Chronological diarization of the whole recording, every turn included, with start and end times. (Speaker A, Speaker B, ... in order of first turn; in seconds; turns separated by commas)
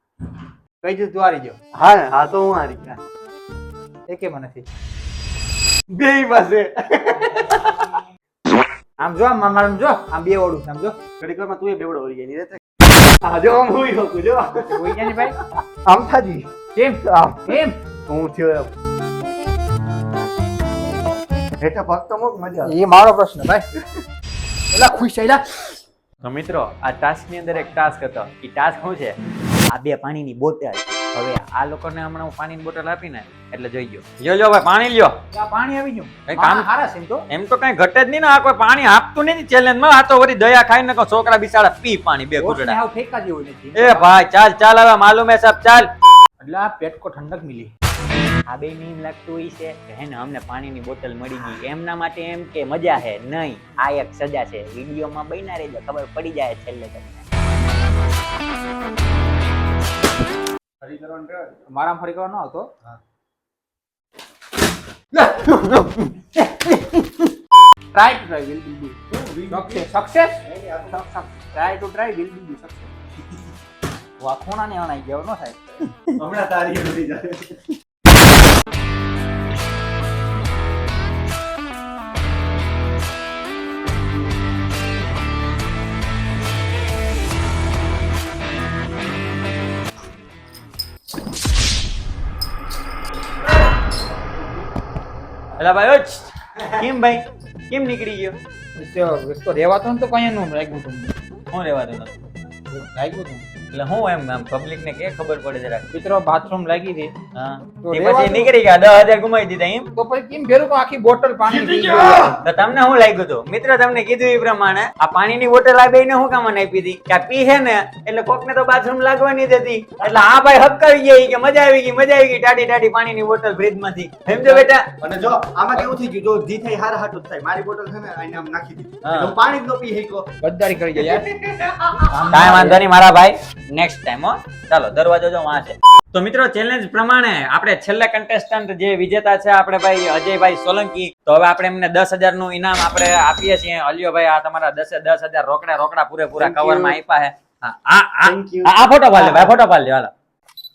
Speaker A: 0.8-1.6, Speaker B: 1.7-3.0, Speaker A: 4.1-4.7, Speaker B: 5.9-7.9, Speaker A: 9.0-11.0, Speaker B: 11.2-16.5, Speaker A: 14.7-15.3, Speaker A: 16.7-17.8, Speaker B: 17.0-18.7, Speaker B: 21.6-22.8, Speaker A: 22.6-23.7, Speaker A: 24.7-25.7, Speaker C: 26.2-29.2, Speaker C: 29.7-35.2, Speaker A: 35.3-37.3, Speaker C: 36.3-36.7, Speaker C: 37.3-42.8, Speaker A: 42.4-44.1, Speaker C: 43.7-45.9, Speaker A: 46.4-47.7, Speaker C: 48.5-57.2, Speaker B: 60.8-61.6, Speaker A: 61.6-62.7, Speaker A: 65.1-67.2, Speaker A: 67.9-69.0, Speaker B: 69.1-69.9, Speaker A: 69.5-70.4, Speaker B: 70.4-71.4, Speaker A: 71.5-72.9, Speaker A: 74.2-75.6, Speaker B: 76.2-77.6, Speaker C: 95.6-98.4, Speaker A: 98.8-101.1, Speaker C: 101.5-102.1, Speaker A: 102.7-103.5, Speaker C: 103.7-105.8, Speaker A: 105.9-107.1, Speaker C: 107.3-109.9, Speaker A: 107.8-108.5, Speaker A: 109.9-112.4, Speaker C: 111.9-124.9, Speaker B: 124.4-130.3, Speaker C: 129.0-129.3, Speaker A: 130.4-131.2, Speaker B: 131.0-132.1, Speaker C: 132.1-150.1, Speaker A: 132.3-132.8, Speaker B: 146.4-146.9, Speaker B: 148.2-149.5